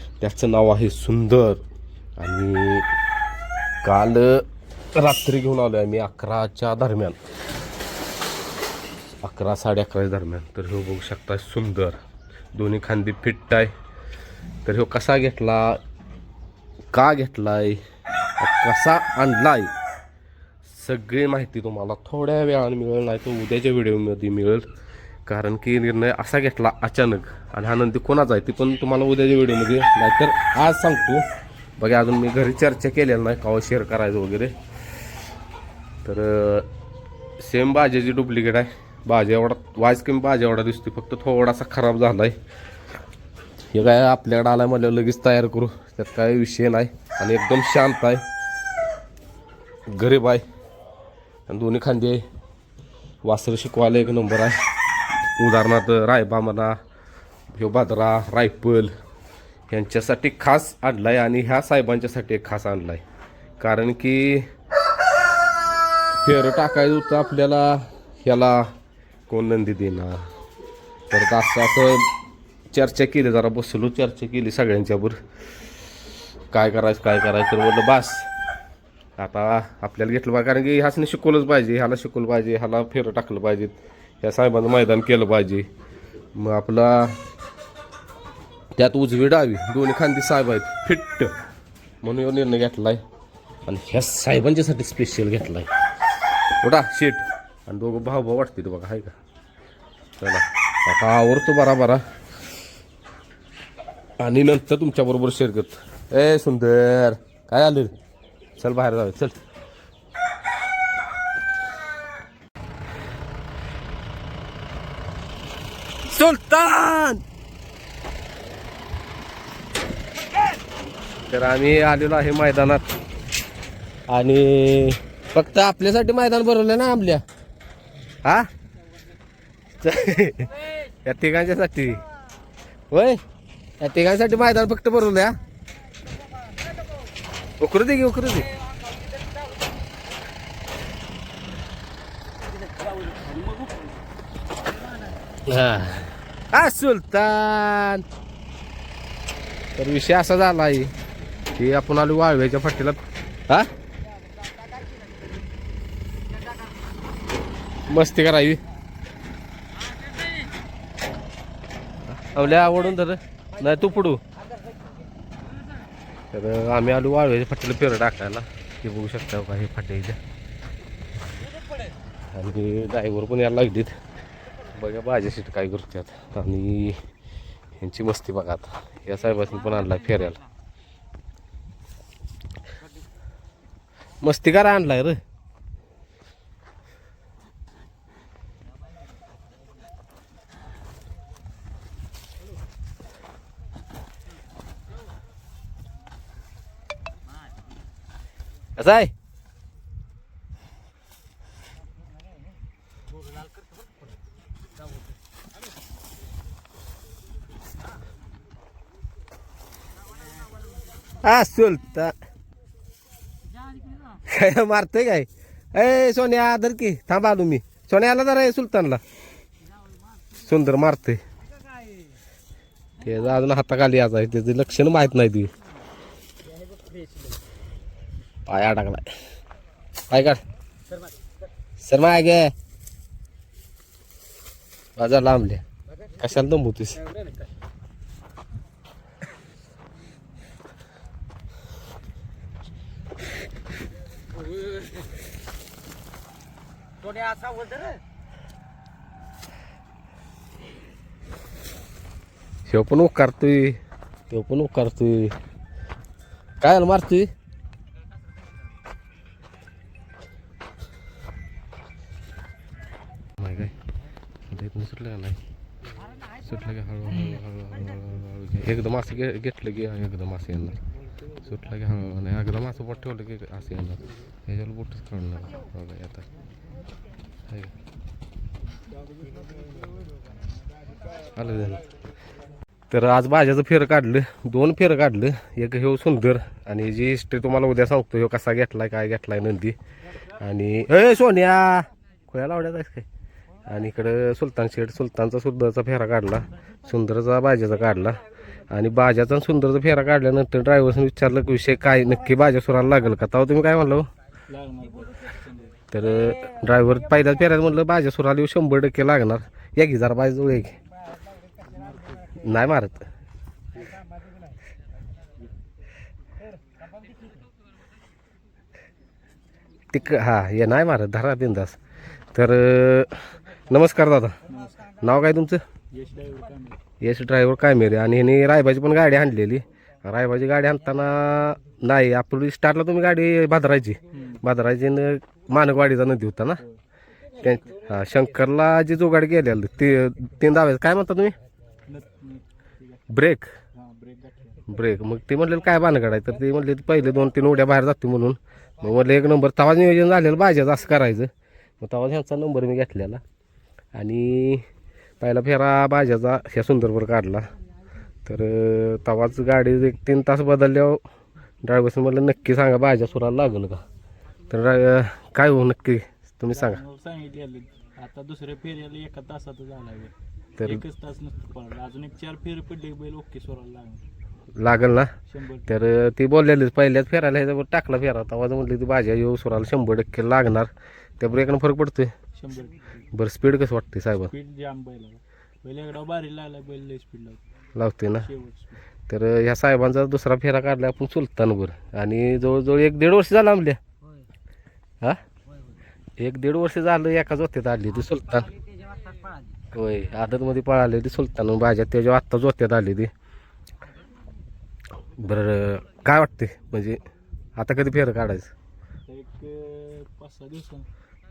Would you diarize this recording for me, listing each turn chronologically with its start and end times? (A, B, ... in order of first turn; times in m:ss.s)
0:00.2-0:01.6 A
0:02.2-0:02.9 A
0:03.8-0:07.2 A
0:09.2-0:12.0 A
0:12.5-0:13.7 A
0:14.6-0:15.8 A
0:16.9-0:17.8 A
0:18.4-0:19.7 A
0:20.6-0:24.7 A
0:25.3-0:31.3 A
0:31.8-0:34.6 A
0:36.0-0:36.7 A
0:37.4-0:42.4 A
0:43.7-0:48.2 A
0:49.9-0:50.4 A
0:51.5-0:52.2 A
0:53.2-0:54.6 A
0:55.4-0:56.8 A
0:57.5-0:58.9 A
0:59.7-1:03.0 A
1:03.6-1:04.5 A
1:06.1-1:08.7 A
1:09.3-1:10.3 A
1:11.1-1:12.1 A
1:12.7-1:15.2 A
1:16.5-1:18.3 A
1:19.2-1:25.7 A
1:26.4-1:27.2 A
1:28.8-1:31.4 A
1:32.0-1:33.0 A
1:33.7-1:35.7 A
1:36.6-1:39.2 A
1:40.2-1:42.0 A
1:44.2-1:47.9 A
1:48.6-1:49.4 A
1:56.1-1:57.2 A
2:01.3-2:02.8 A
2:04.1-2:07.2 A
2:09.7-2:12.0 A
2:12.9-2:13.2 A
2:13.8-2:15.4 A
2:17.6-2:18.5 A
2:23.1-2:23.8 B
2:25.5-2:28.0 A
2:29.8-2:30.9 A
2:31.6-2:33.7 A
2:37.9-2:38.6 A
2:42.1-2:44.2 A
2:46.3-2:50.2 A
2:52.3-2:54.0 A
2:54.7-2:57.0 A
2:57.8-3:00.4 A
3:04.2-3:05.2 A
3:18.8-3:19.1 A
3:31.2-3:32.1 A
3:34.2-3:39.0 A
3:40.4-3:41.2 A
3:43.0-3:45.5 A
3:48.5-3:49.0 A
3:50.1-3:50.4 A
3:51.8-3:52.5 A
3:55.0-3:55.6 A
3:56.2-3:57.1 A
4:12.7-4:13.8 A
4:14.3-4:15.4 A
4:16.6-4:17.3 A
4:23.4-4:23.8 A
4:24.5-4:25.4 A
4:26.4-4:30.8 A
4:31.4-4:36.3 A
4:41.2-4:41.8 A
4:42.9-4:49.8 A
4:50.4-4:53.1 A
4:53.7-5:04.1 A
5:04.5-5:05.8 B
5:05.9-5:10.8 A
5:11.6-5:12.3 B
5:12.4-5:13.1 A
5:19.9-5:21.8 A
5:22.3-5:25.6 A
5:24.5-5:24.8 B
5:25.9-5:26.8 B
5:27.0-5:36.6 A
5:34.1-5:34.4 B
5:37.4-5:41.4 A
5:37.4-5:37.7 B
5:41.9-5:43.1 B
5:43.1-5:43.5 A
5:43.7-5:44.6 B
5:44.7-5:51.3 A
5:51.8-5:53.2 A
5:54.0-5:54.6 A
5:55.2-5:57.5 A
5:58.2-6:01.0 A
6:01.6-6:03.8 A
6:04.5-6:06.8 A
6:06.5-6:14.0 B
6:10.6-6:10.8 A
6:14.6-6:15.1 A
6:15.3-6:15.7 B
6:15.7-6:22.1 A
6:22.4-6:22.9 B
6:23.1-6:24.3 A
6:24.3-6:27.4 B
6:27.8-6:28.3 A
6:28.2-6:28.8 B
6:29.1-6:33.8 A
6:36.2-6:38.5 A
6:39.7-6:43.1 A
6:45.2-6:47.0 A
6:47.6-6:48.5 A
6:49.1-6:50.9 B